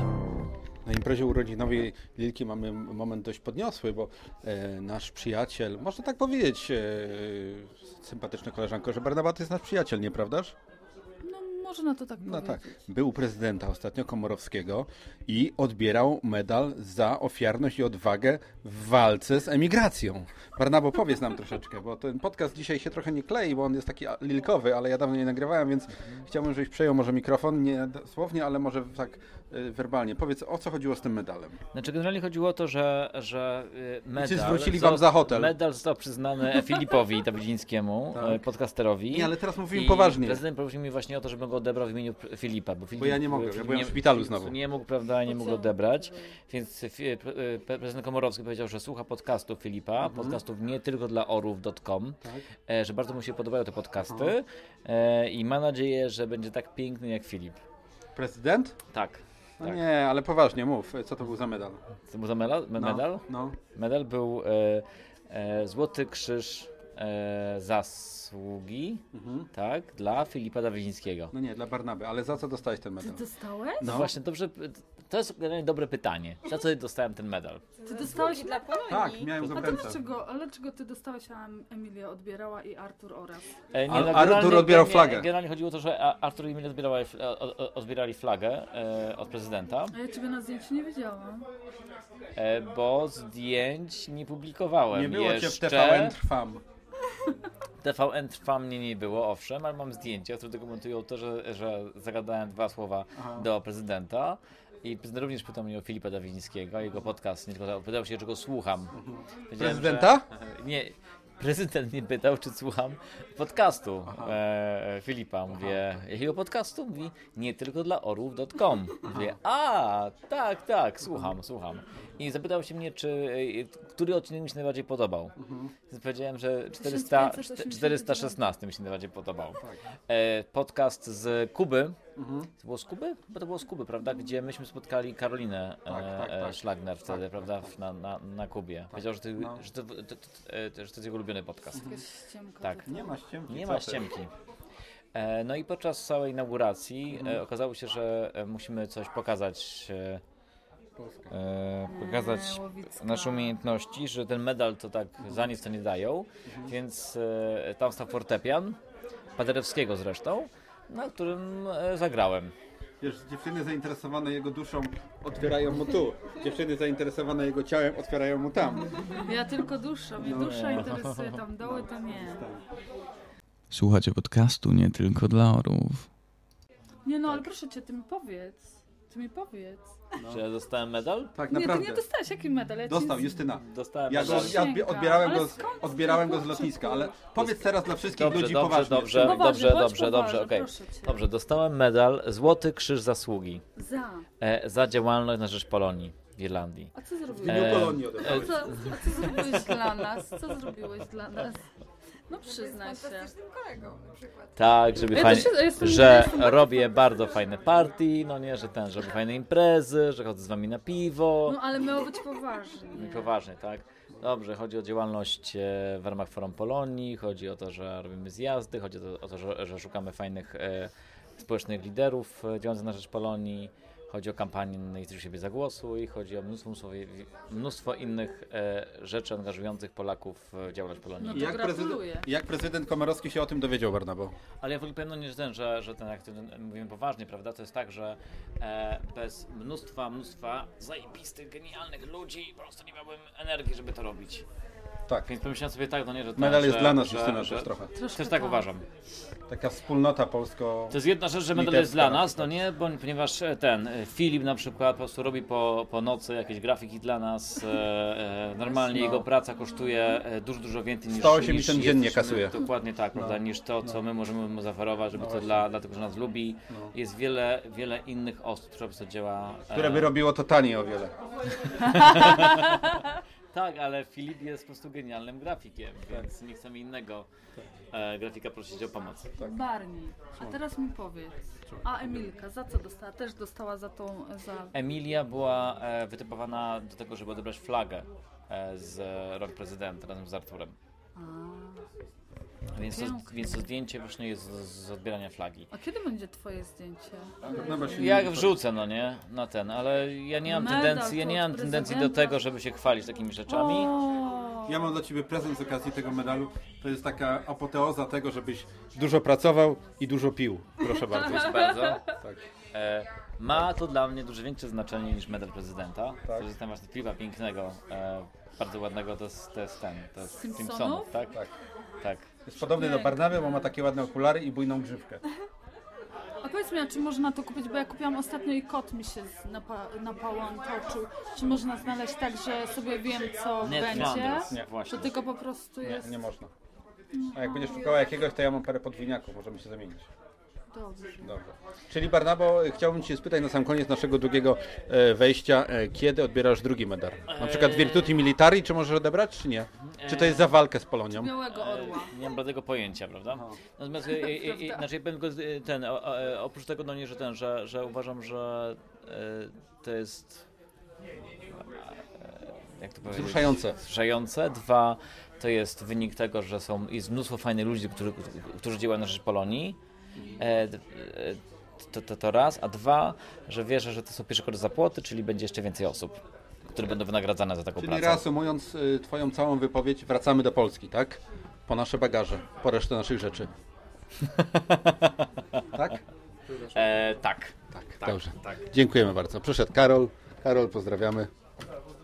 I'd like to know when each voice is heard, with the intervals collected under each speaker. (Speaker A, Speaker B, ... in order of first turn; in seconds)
Speaker A: 0.8-10.5, 12.2-31.6, 34.2-35.5, 38.1-38.4, 39.1-40.4, 43.0-44.5, 50.0-50.4, 54.0-54.3, 58.1-58.8, 59.6-61.8, 62.8-63.5, 69.1-69.5, 71.3-73.2, 73.8-74.1, 78.9-80.0, 83.9-85.3, 94.9-96.6, 103.2-103.4, 109.0-110.2, 114.1-114.3, 119.1-119.3, 125.4-125.7, 132.2-132.5, 135.9-137.6, 138.9-139.6, 142.9-144.0, 151.0-151.3, 156.5-156.7, 163.0-169.0, 170.2-172.6, 181.3-182.0, 182.8-189.4, 197.4-198.8, 231.3-234.3, 246.3-247.9, 249.5-250.9, 251.5-252.5, 258.9-259.2, 261.1-262.5, 265.2-265.6, 269.7-271.1, 297.4-298.5, 304.7-312.4, 322.4-325.2, 333.8-334.7, 335.8-336.5, 337.3-340.1, 341.2-351.3, 363.1-363.8, 377.8-383.5, 385.7-386.0, 387.7-391.3
Speaker B: 11.2-12.7, 73.0-73.9, 77.8-78.7, 79.4-83.5, 89.9-91.5, 126.8-128.4, 141.8-142.9, 151.9-153.6, 169.2-172.4, 177.0-180.0, 181.5-183.5, 184.1-187.2, 189.2-191.1, 193.8-194.2, 196.9-201.6, 202.3-203.3, 205.1-207.1, 211.4-213.3, 231.2-232.2, 247.9-248.7, 271.8-272.3, 279.4-284.7, 291.1-291.8, 292.9-293.4, 295.7-297.3, 300.4-302.4, 303.5-304.8, 311.2-312.1, 320.3-321.1, 322.6-323.7, 326.4-336.1, 337.1-338.1, 340.7-341.3, 351.1-352.1, 354.1-354.9
Speaker C: 31.7-57.6, 58.9-59.8, 62.1-71.3, 73.8-77.6, 83.7-89.9, 92.3-96.1, 97.8-108.9, 109.5-125.3, 125.9-132.0, 132.6-142.0, 142.6-142.9, 143.5-144.3, 145.1-150.2, 151.3-158.8, 159.3-162.5, 180.3-181.3, 183.6-184.7, 187.3-193.6, 194.4-196.9, 197.4-199.8, 204.5-211.6, 212.9-231.5, 234.6-244.4, 245.2-248.8, 250.9-270.1, 271.9-272.9, 273.5-277.3, 277.9-279.3, 284.7-290.8, 292.7-295.7, 297.9-303.9, 311.1-312.0, 312.7-321.3, 322.0-322.3, 333.6-335.2, 347.3-348.2, 349.9-350.5, 351.5-360.4, 361.8-369.8, 370.4-378.2, 384.4-385.1, 386.7-388.6
Speaker D: 77.8-79.3, 202.7-204.0
Speaker E: 173.7-176.1